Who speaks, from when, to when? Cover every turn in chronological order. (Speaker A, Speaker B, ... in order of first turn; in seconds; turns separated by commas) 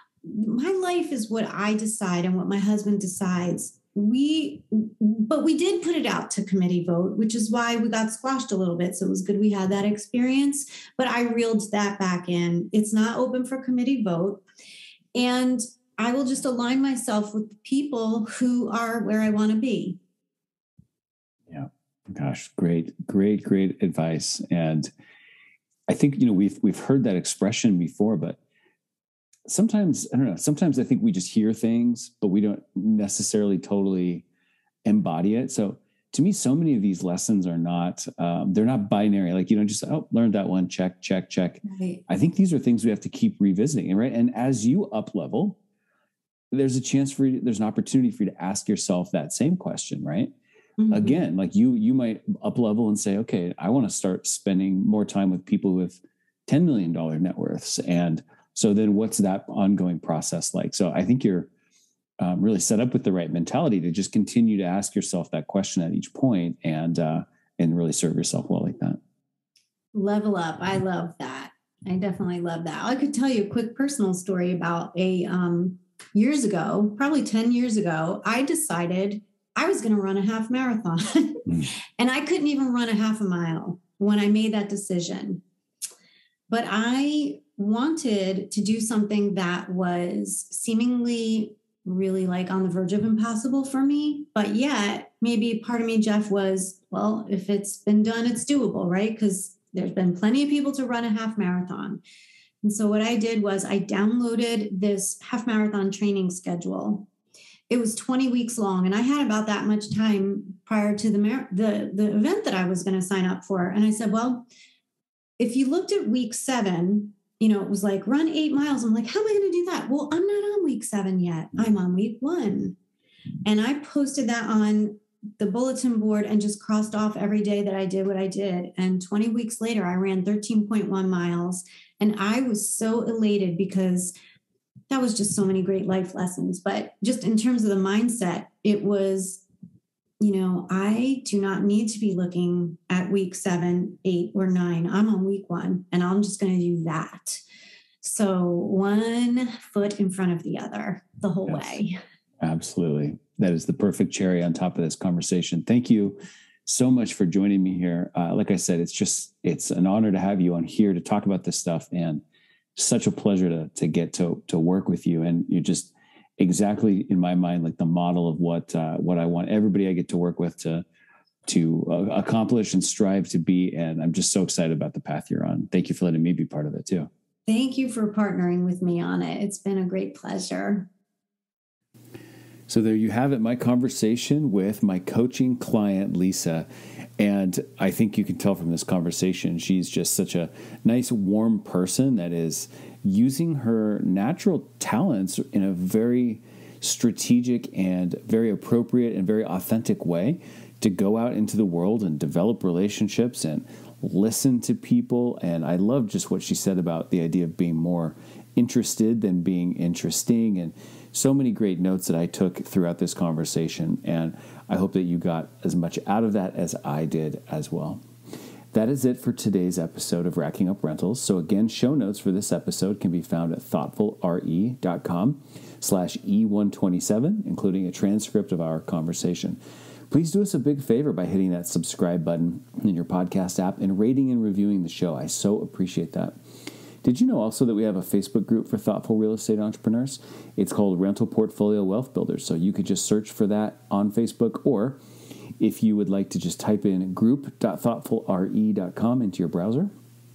Speaker A: 0.2-14.4, Speaker A: 15.1-20.0, Speaker B: 21.5-24.9, Speaker B: 25.9-28.4, Speaker B: 29.5-34.2, Speaker B: 34.8-45.6, Speaker A: 41.6-42.0, Speaker B: 46.5-50.3, Speaker A: 50.8-51.2, Speaker B: 50.9-61.5, Speaker B: 62.2-69.0, Speaker A: 69.9-85.4, Speaker A: 86.5-102.0, Speaker A: 102.6-107.1, Speaker A: 107.7-114.5, Speaker A: 115.4-122.8, Speaker A: 123.5-134.1, Speaker A: 134.9-139.4, Speaker A: 140.2-147.4, Speaker A: 148.0-152.0, Speaker B: 151.5-151.8, Speaker B: 152.4-162.2, Speaker B: 162.8-170.8, Speaker B: 171.4-177.1, Speaker A: 177.5-180.9, Speaker B: 182.7-186.7, Speaker B: 187.2-218.0, Speaker B: 218.7-229.6, Speaker B: 230.1-236.3, Speaker B: 237.0-245.0, Speaker B: 245.6-249.9